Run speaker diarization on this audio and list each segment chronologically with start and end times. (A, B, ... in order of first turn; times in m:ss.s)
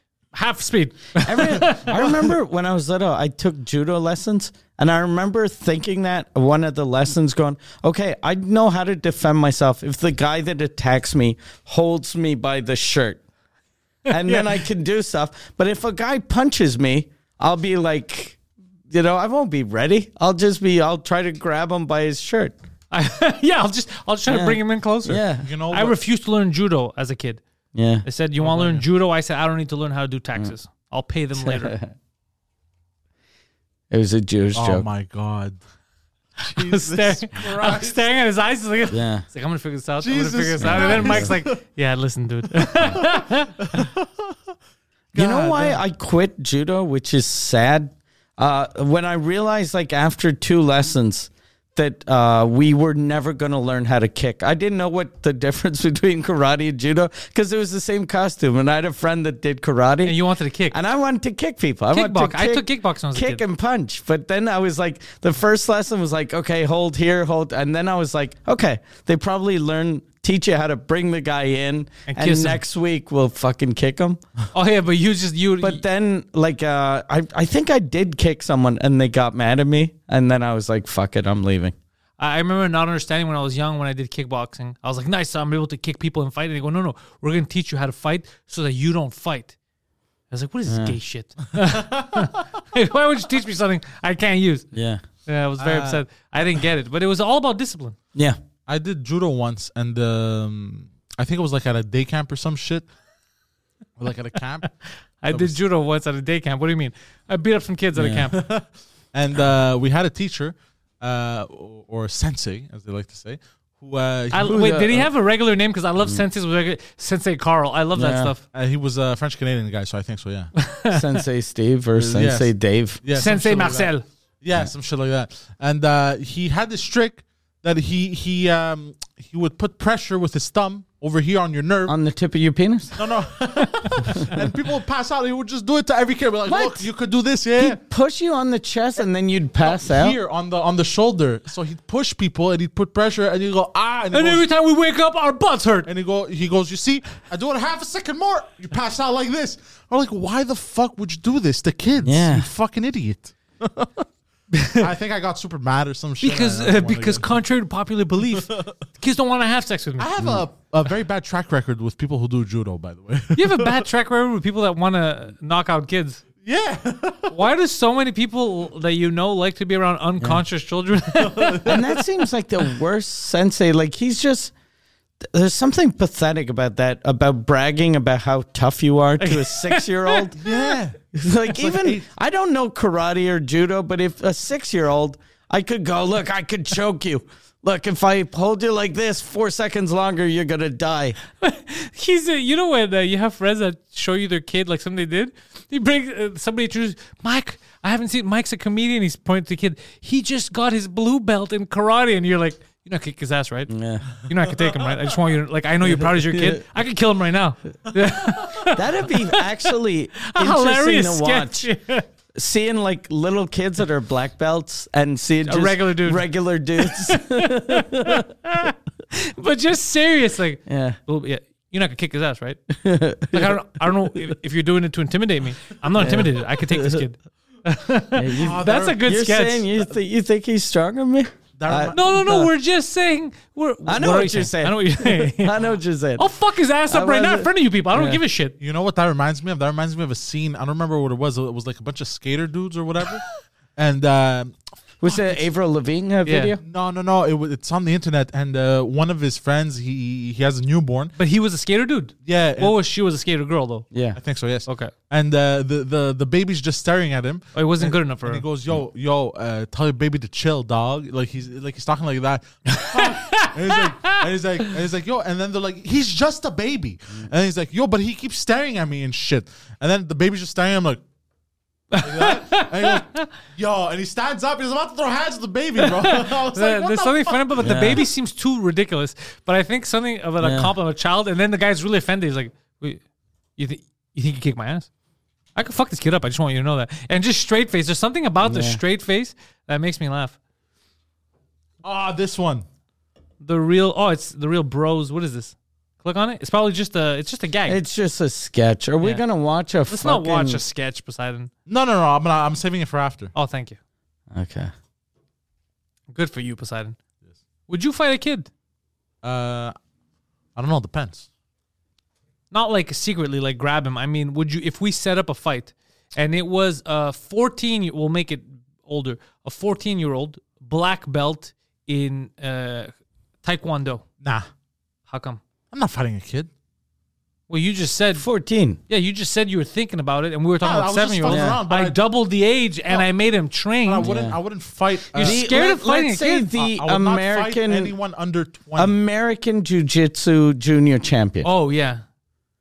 0:00.3-0:02.0 A
0:01.2-0:13.2 B
0:01.7-0:02.2 C
0:14.1-0:14.5 A
0:14.1-0:22.6 B
0:22.9-0:27.4 A
0:24.3-0:25.5 B
0:25.4-0:26.0 C
0:27.8-0:28.0 B
0:28.0-0:31.8 A
0:28.4-0:28.8 C
0:31.4-0:31.9 B
0:33.9-0:34.9 B
0:34.6-0:35.6 C
0:36.4-0:38.0 C
0:36.5-0:43.8 A
0:38.9-0:39.2 B
0:40.0-0:41.6 C
0:40.6-0:41.4 B
0:42.6-0:44.3 C
0:45.1-0:45.8 C
0:45.2-1:00.2 B
1:00.0-1:00.8 A
1:00.7-1:14.2 B
1:01.9-1:03.4 A
1:12.1-1:12.6 A
1:14.5-1:15.8 A
1:15.6-1:21.8 B
1:22.2-1:29.6 A
1:30.3-1:34.7 A
1:30.7-1:31.0 B
1:31.6-1:32.3 C
1:34.7-1:35.0 B
1:35.3-1:38.0 A
1:35.6-1:36.0 C
1:38.7-1:42.9 C
1:44.0-1:44.8 C
1:45.2-1:48.4 A
1:45.3-1:45.6 C
1:48.0-1:48.3 B
1:48.3-1:54.7 C
1:54.3-1:58.4 A
1:54.4-1:55.1 B
1:58.0-1:58.3 B
1:58.5-2:00.5 C
2:00.6-2:01.2 A
2:00.9-2:03.0 B
2:02.0-2:12.0 C
2:03.2-2:04.0 A
2:11.9-2:13.0 B
2:13.0-2:17.8 C
2:16.5-2:16.9 B
2:17.6-2:20.2 B
2:19.6-2:24.4 C
2:24.1-2:25.9 A
2:25.9-2:34.0 C
2:32.0-2:32.5 B
2:34.5-2:34.9 A
2:34.8-2:37.4 C
2:36.2-2:40.1 A
2:38.3-2:38.8 C
2:40.0-2:43.9 C
2:40.2-2:40.4 B
2:43.4-2:46.2 A
2:46.4-2:47.3 C
2:47.3-2:51.8 A
2:51.1-2:52.0 C
2:51.6-2:54.5 B
2:55.2-3:11.2 B
2:59.2-3:00.3 A
3:00.4-3:02.1 C
3:11.4-3:23.7 A
3:23.7-3:24.1 B
3:24.2-3:32.1 A
3:24.5-3:24.9 C
3:25.8-3:26.6 B
3:28.7-3:31.7 B
3:32.3-3:38.3 B
3:35.4-3:36.3 A
3:36.8-3:42.6 A
3:40.7-3:41.0 B
3:42.7-3:43.6 B
3:43.3-3:49.7 A
3:46.0-3:47.0 B
3:48.2-3:52.5 B
3:48.4-3:49.0 C
3:51.6-3:52.2 C
3:51.9-3:55.6 A
3:53.8-3:56.3 B
3:56.2-3:58.6 A
3:56.9-3:58.2 B
3:58.6-4:05.4 C
4:05.0-4:06.6 B
4:06.3-4:06.6 A
4:06.6-4:11.2 C
4:11.2-4:13.9 A
4:12.2-4:12.8 C
4:13.9-4:14.2 B
4:14.2-4:31.0 C
4:14.7-4:14.9 A
4:17.6-4:18.4 A
4:22.9-4:24.2 A
4:31.9-4:33.3 A
4:32.0-4:37.8 C
4:35.8-4:43.0 A
4:37.6-4:38.0 B
4:40.4-4:40.7 B
4:43.6-4:44.9 A
4:45.6-4:50.4 A
4:48.4-4:48.8 B
4:51.8-4:52.6 C
4:53.4-4:57.8 A
4:57.7-5:00.6 B
4:59.9-5:01.5 A
5:01.7-5:03.3 C
5:03.4-5:03.8 A
5:04.3-5:04.7 B
5:06.1-5:07.0 A
5:07.7-5:08.5 A
5:09.2-5:09.8 C
5:10.6-5:11.3 C
5:12.5-5:22.9 A
5:23.4-5:24.0 A
5:25.1-5:25.4 A
5:25.7-5:26.5 C
5:27.5-5:28.3 A
5:28.2-5:28.8 B
5:28.9-5:34.1 A
5:30.6-5:32.0 C
5:31.3-5:31.6 B
5:33.8-5:35.4 C
5:34.0-5:34.4 B
5:35.2-5:36.5 A
5:35.2-5:37.9 B
5:36.6-5:39.0 C
5:38.8-5:41.5 B
5:41.4-5:42.0 A